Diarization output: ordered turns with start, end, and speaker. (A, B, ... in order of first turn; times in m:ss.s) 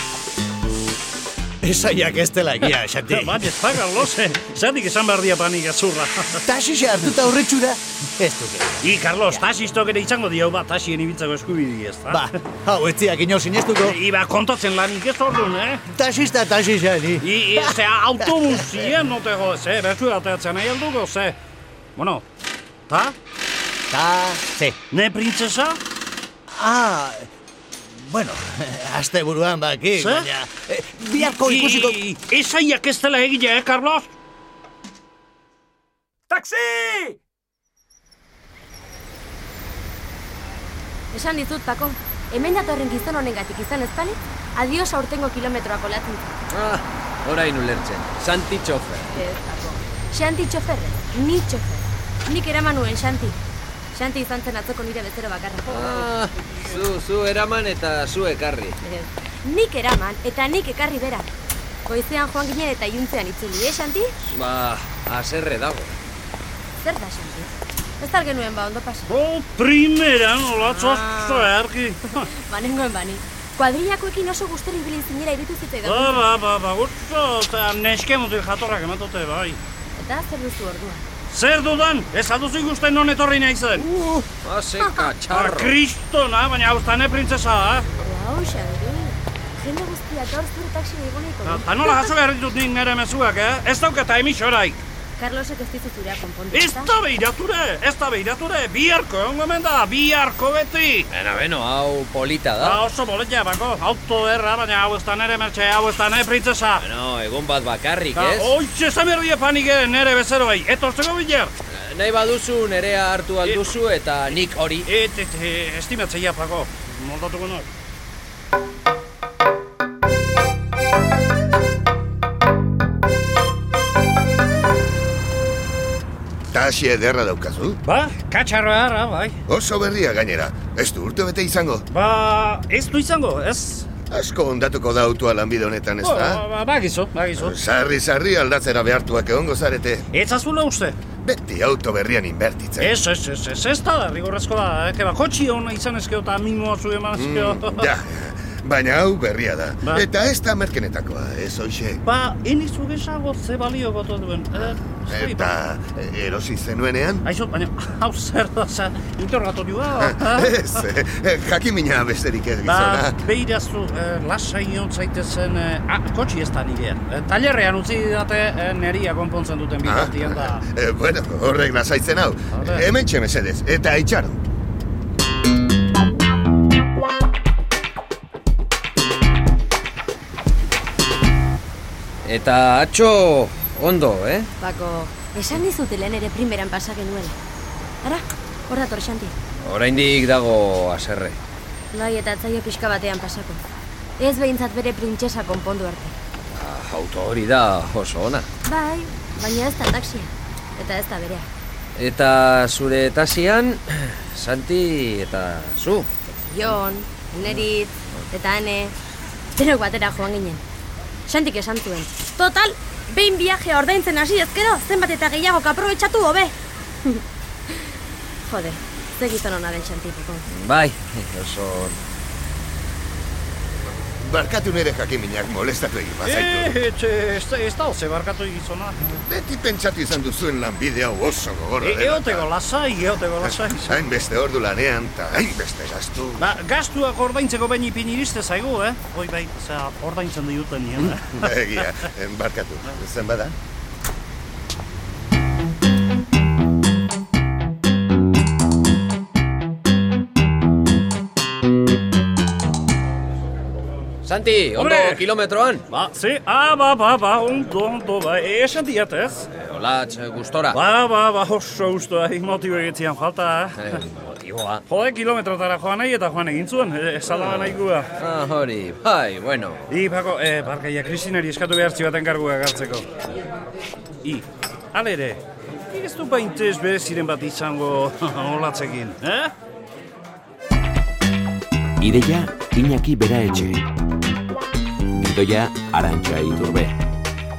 0:01.6-0:04.0 A
0:02.7-0:06.4 B
0:06.5-0:09.6 A
0:08.9-0:12.3 B
0:12.1-0:14.0 A
0:13.8-0:15.8 B
0:15.9-0:19.0 A
0:17.2-0:21.4 B
0:22.0-0:22.2 B
0:22.9-0:23.2 B
0:23.9-0:24.8 A
0:24.9-0:25.8 B
0:26.6-0:27.3 A
0:27.9-0:32.0 A
0:30.0-0:30.3 B
0:31.2-0:34.1 B
0:36.4-0:36.8 A
0:41.1-0:46.3 C
0:46.5-0:49.2 D
0:49.1-0:53.4 C
0:53.9-0:56.1 C
0:55.7-0:58.8 D
0:58.8-1:01.3 C
1:01.9-1:04.1 C
1:04.3-1:05.9 D
1:06.8-1:09.1 C
1:09.1-1:12.3 B
1:10.5-1:11.5 C
1:12.1-1:16.2 C
1:15.8-1:19.6 B
1:20.0-1:21.0 C
1:21.3-1:23.9 B
1:23.8-1:25.8 D
1:24.8-1:25.1 C
1:25.3-1:27.9 B
1:28.0-1:32.2 C
1:31.4-1:34.8 B
1:35.2-1:36.9 C
1:36.5-1:41.1 B
1:41.1-1:42.8 D
1:42.6-1:46.8 B
1:46.8-1:48.5 D
1:48.1-1:51.5 B
1:51.7-1:54.9 D
1:54.8-1:57.7 B
2:06.5-2:07.8 E
2:07.8-2:09.4 B
2:09.5-2:11.8 E
2:11.9-2:13.9 B
2:14.1-2:16.4 E
2:16.0-2:17.5 B
2:17.4-2:20.1 E
2:20.1-2:21.0 B
2:21.2-2:22.9 E
2:22.8-2:27.9 B
2:27.2-2:32.0 E
2:32.1-2:35.5 B
2:35.1-2:37.2 E
2:37.2-2:40.5 B
2:40.0-2:43.2 E
2:42.7-2:50.6 B
2:49.8-2:54.4 E
2:52.5-2:52.8 B
3:02.2-3:04.5 D
3:04.6-3:07.4 C
3:08.0-3:09.4 C
3:09.6-3:11.4 D
3:11.9-3:13.6 C
3:14.2-3:16.2 C
3:16.5-3:18.5 D
3:18.6-3:21.5 C
3:22.0-3:26.1 D
3:26.5-3:29.0 C
3:29.6-3:30.6 C
3:31.3-3:36.5 C
3:37.0-3:37.8 C
3:38.5-3:40.4 C
3:40.5-3:42.0 D
3:44.2-3:46.8 E
3:46.2-3:49.2 B
3:49.2-3:52.5 E
3:51.8-3:54.0 B
3:53.6-3:56.5 E
3:56.4-4:01.5 B
4:01.2-4:03.6 E
4:14.2-4:15.8 D
4:14.8-4:15.2 B
4:15.9-4:19.5 B
4:19.6-4:20.8 D
4:20.7-4:24.0 B
4:23.8-4:24.8 D
4:24.9-4:28.1 B
4:27.3-4:29.8 D
4:29.9-4:33.1 B
4:34.2-4:39.5 B
4:42.0-4:43.8 F
4:45.2-4:47.0 F